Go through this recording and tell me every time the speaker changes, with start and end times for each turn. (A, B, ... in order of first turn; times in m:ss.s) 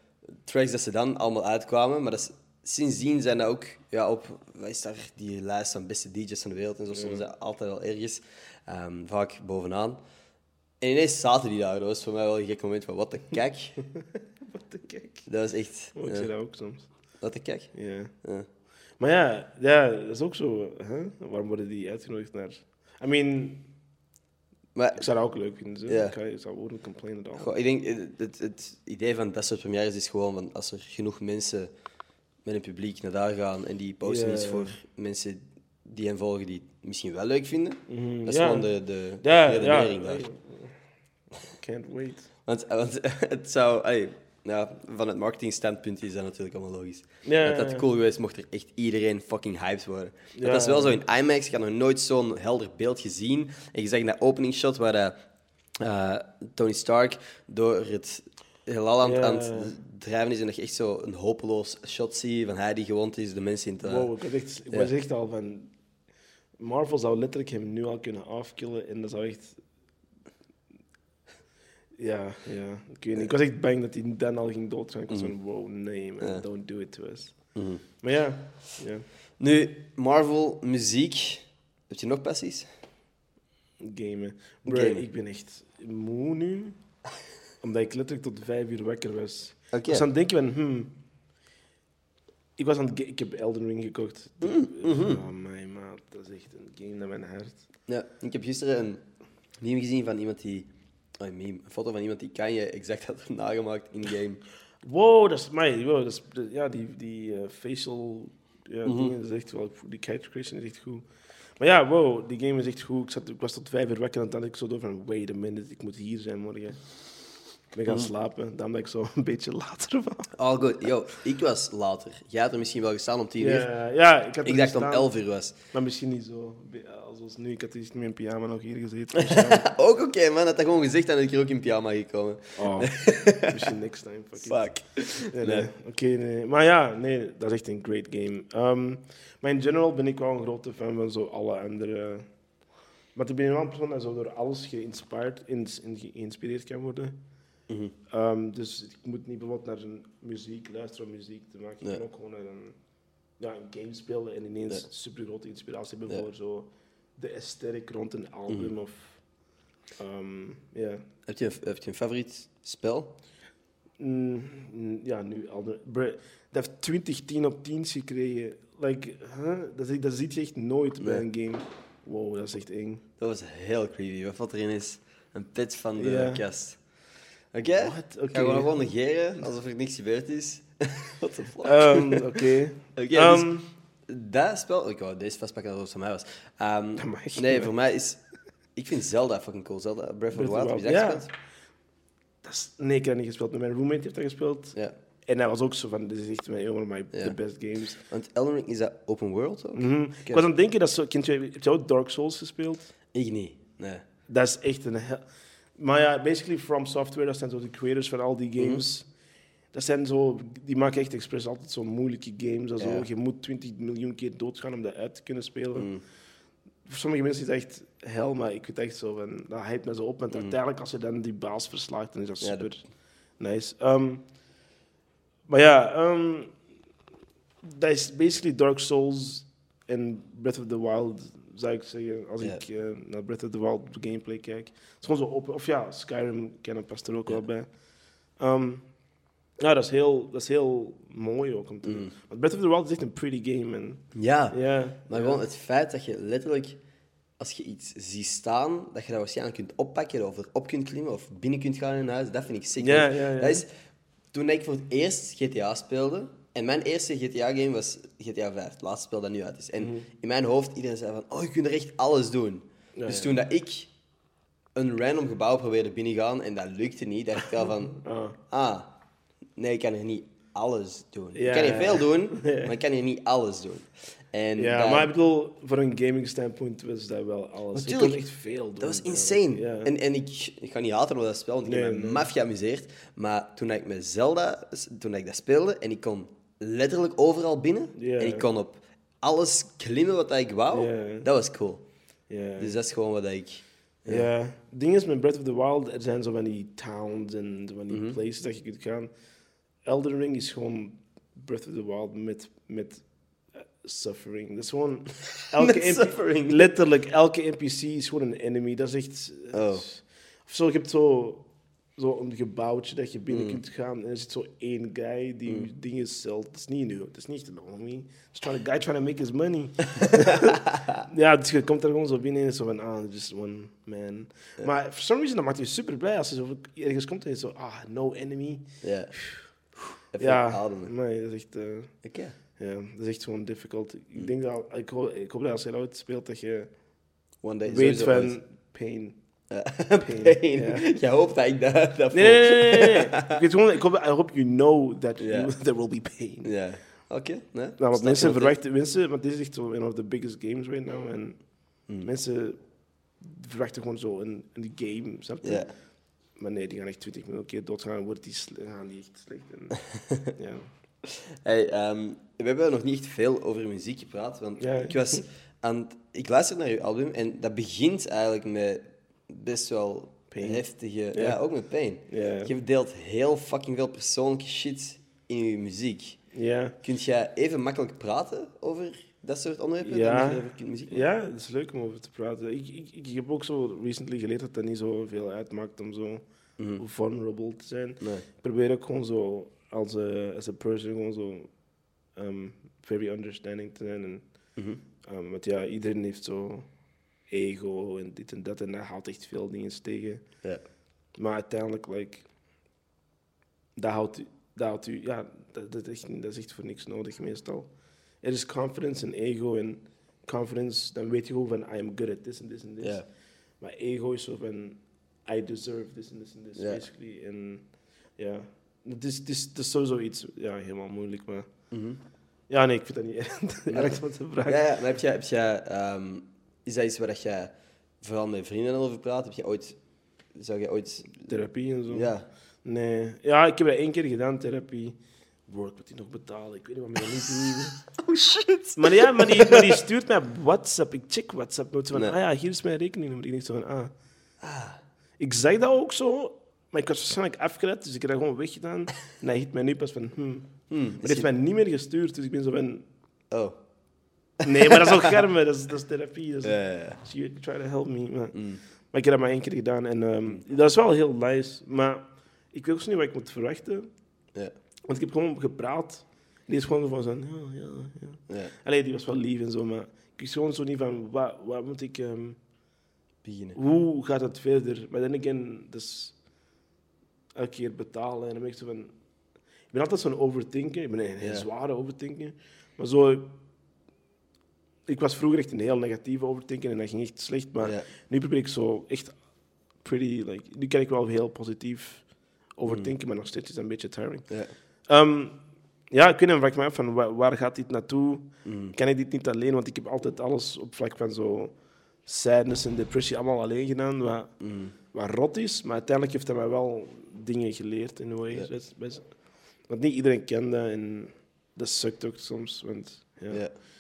0:00.4-0:10.0 A
0:06.9-0:07.2 B
0:10.8-0:13.8 A
0:14.5-0:15.3 B
0:15.3-0:16.3 A
0:15.9-0:16.9 B
0:17.2-0:18.5 A
0:17.7-0:18.1 B
0:19.0-0:23.7 B
0:24.8-0:25.1 A
0:25.0-0:27.5 B
0:25.9-0:26.2 A
0:27.4-0:31.7 A
0:32.4-0:40.2 A
0:34.0-0:34.8 B
0:37.9-0:38.7 B
0:39.2-0:40.8 B
0:41.5-0:42.3 B
0:42.5-0:55.2 A
0:47.2-0:47.8 B
0:50.4-0:51.0 B
0:55.8-1:04.1 A
0:59.0-0:59.7 B
1:03.8-1:05.7 B
1:06.6-1:09.6 B
1:12.0-1:19.0 B
1:15.1-1:15.3 A
1:17.6-1:17.8 A
1:19.4-1:22.7 A
1:23.8-1:26.8 B
1:24.6-1:25.0 A
1:27.6-1:30.9 B
1:29.7-1:30.0 A
1:32.6-1:37.6 B
1:34.4-1:35.2 A
1:37.9-1:39.0 A
1:39.6-1:44.4 A
1:44.8-1:51.1 B
1:48.8-1:49.1 A
1:51.6-1:56.8 B
1:57.7-2:00.3 B
2:00.4-2:03.7 A
2:03.4-2:09.7 B
2:04.4-2:05.5 A
2:09.2-2:13.6 A
2:12.6-2:22.3 B
2:14.4-2:15.7 A
2:23.2-2:27.2 B
2:27.7-2:27.9 A
2:28.1-2:32.8 B
2:33.4-2:39.2 B
2:40.0-2:41.0 B
2:41.3-2:43.2 A
2:44.0-2:53.0 B
2:53.2-3:02.4 A
2:56.0-2:56.4 B
2:57.8-2:58.7 B
3:01.6-3:03.7 B
3:03.0-3:03.6 A
3:04.1-3:08.2 A
3:07.0-3:07.7 B
3:08.8-3:11.3 A
3:10.3-3:11.3 B
3:12.4-3:18.0 B
3:17.9-3:20.4 A
3:19.7-3:22.9 B
3:23.1-3:24.0 A
3:24.3-3:29.1 B
3:28.6-3:28.8 A
3:29.7-3:35.9 B
3:32.8-3:33.1 A
3:35.8-3:36.0 A
3:36.8-3:44.3 B
3:42.4-3:42.7 A
3:45.5-3:46.6 B
3:47.6-3:57.8 B
3:58.4-3:59.0 B
3:59.6-4:05.4 B
4:01.9-4:02.1 A
4:04.2-4:06.8 A
4:07.4-4:13.7 A
4:12.8-4:13.6 B
4:14.3-4:23.9 A
4:19.8-4:20.1 B
4:23.0-4:23.4 B
4:24.8-4:28.9 A
4:28.0-4:28.4 B
4:29.6-4:35.1 A
4:31.4-4:32.7 B
4:34.6-4:39.9 B
4:37.7-4:38.2 A
4:38.8-4:51.8 A
4:41.6-4:42.3 B
4:48.0-4:48.5 B
4:50.7-4:51.3 B
4:52.3-4:52.8 B
4:52.6-4:54.3 A
4:54.1-4:59.1 B
4:57.9-4:58.2 A
4:59.8-5:29.5 B
5:05.6-5:06.7 A
5:09.5-5:09.8 A
5:13.3-5:13.6 A
5:20.0-5:21.0 A
5:28.8-5:29.6 A
5:30.1-5:30.9 A
5:30.2-5:32.0 B
5:32.0-5:32.3 A
5:32.6-5:36.7 B
5:37.4-5:38.4 A
5:37.7-5:39.2 B
5:39.5-5:43.4 A
5:40.0-5:40.9 B
5:42.1-5:46.5 B
5:45.2-5:45.5 A
5:46.4-5:48.5 A
5:47.8-5:52.6 B
5:53.2-5:55.7 B
5:55.4-5:55.7 A
5:56.3-6:00.7 B
5:59.9-6:00.2 A
6:01.0-6:16.2 A
6:04.6-6:05.2 B
6:10.3-6:11.4 B
6:12.1-6:12.5 B
6:16.3-6:16.8 B
6:16.8-6:21.0 A
6:19.8-6:26.2 B
6:26.6-6:26.8 A
6:26.8-6:31.6 B
6:32.1-6:34.2 B
6:35.0-6:36.7 B
6:37.3-6:40.4 B
6:41.1-6:42.3 B
6:43.8-6:53.0 B
6:53.6-7:01.6 B
6:56.6-6:56.8 A
7:01.7-7:02.0 A
7:02.5-7:04.6 B
7:03.7-7:09.8 A
7:10.3-7:11.3 A
7:11.2-7:12.1 B
7:11.9-7:12.3 A
7:12.6-7:17.8 B
7:17.9-7:19.8 A
7:18.8-7:23.9 B
7:24.4-7:24.8 A
7:25.2-7:32.9 B
7:30.7-7:31.3 A
7:33.3-7:33.6 A
7:34.4-7:35.1 A
7:34.4-7:43.9 B
7:36.4-7:37.0 A
7:38.3-7:38.6 A
7:44.9-7:52.4 B
7:53.2-7:53.6 A
7:53.6-7:56.2 B
7:57.4-7:58.9 B
7:59.7-8:03.4 B
8:01.2-8:01.5 A
8:04.9-8:09.2 B
8:07.6-8:07.9 A
8:09.8-8:33.4 B
8:12.7-8:12.9 A
8:14.3-8:14.5 A
8:18.4-8:18.8 A
8:24.4-8:24.8 A